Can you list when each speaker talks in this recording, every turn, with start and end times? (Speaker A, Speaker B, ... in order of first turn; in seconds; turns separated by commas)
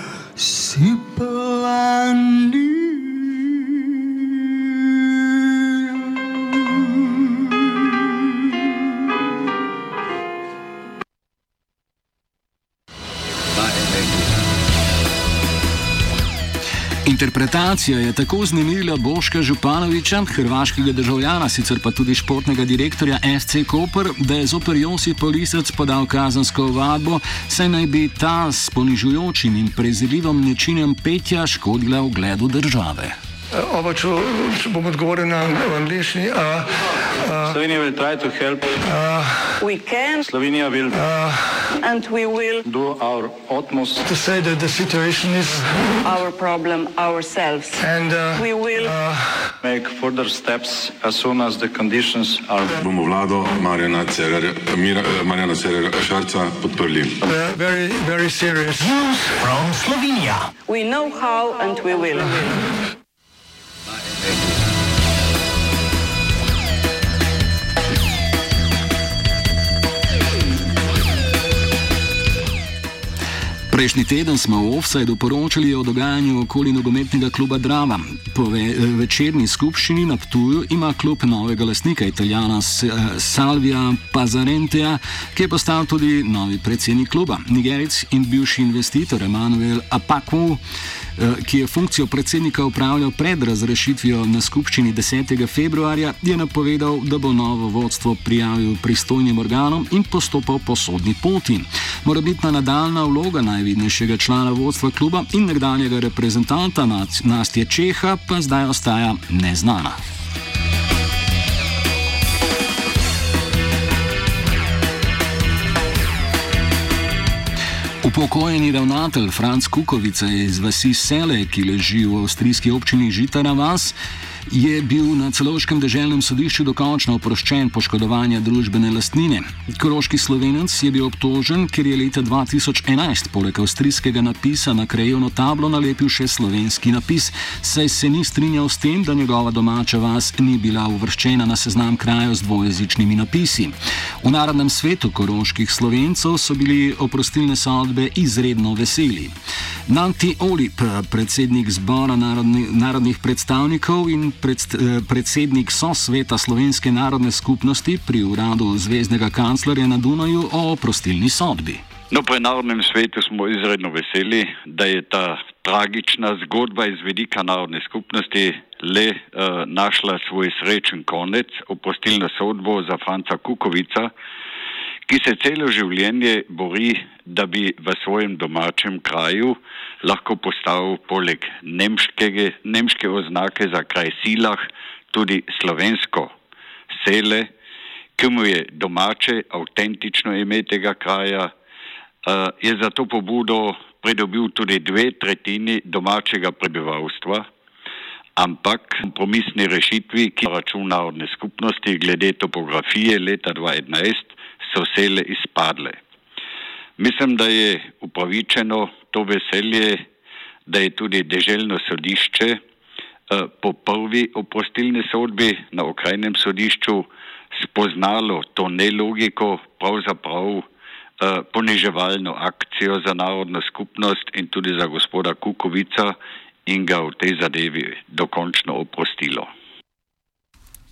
Speaker A: 0.4-3.6, Speaker A: 17.1-33.2, Speaker B: 33.6-36.7, Speaker C: 37.4-38.9, Speaker B: 38.9-39.4, Speaker D: 39.6-40.2, Speaker C: 40.2-41.1, Speaker B: 41.1-41.5, Speaker D: 41.7-42.6, Speaker C: 42.6-44.1, Speaker B: 44.1-45.6, Speaker D: 45.8-49.0, Speaker C: 49.6-52.8, Speaker E: 52.8-57.2, Speaker B: 57.3-59.5, Speaker D: 59.1-60.1, Speaker D: 60.7-62.7, Speaker A: 73.7-90.6, Speaker A: 91.2-110.0, Speaker A: 118.0-124.0, Speaker A: 124.5-149.3, Speaker A: 149.9-161.8, Speaker F: 162.1-174.1, Speaker F: 175.1-184.6, Speaker F: 185.1-186.3, Speaker F: 186.9-187.5, Speaker F: 188.2-191.5, Speaker F: 192.2-197.4, Speaker F: 198.4-206.0, Speaker F: 207.0-210.0, Speaker F: 210.7-212.6, Speaker F: 213.3-220.6, Speaker F: 221.2-226.2, Speaker F: 226.7-229.5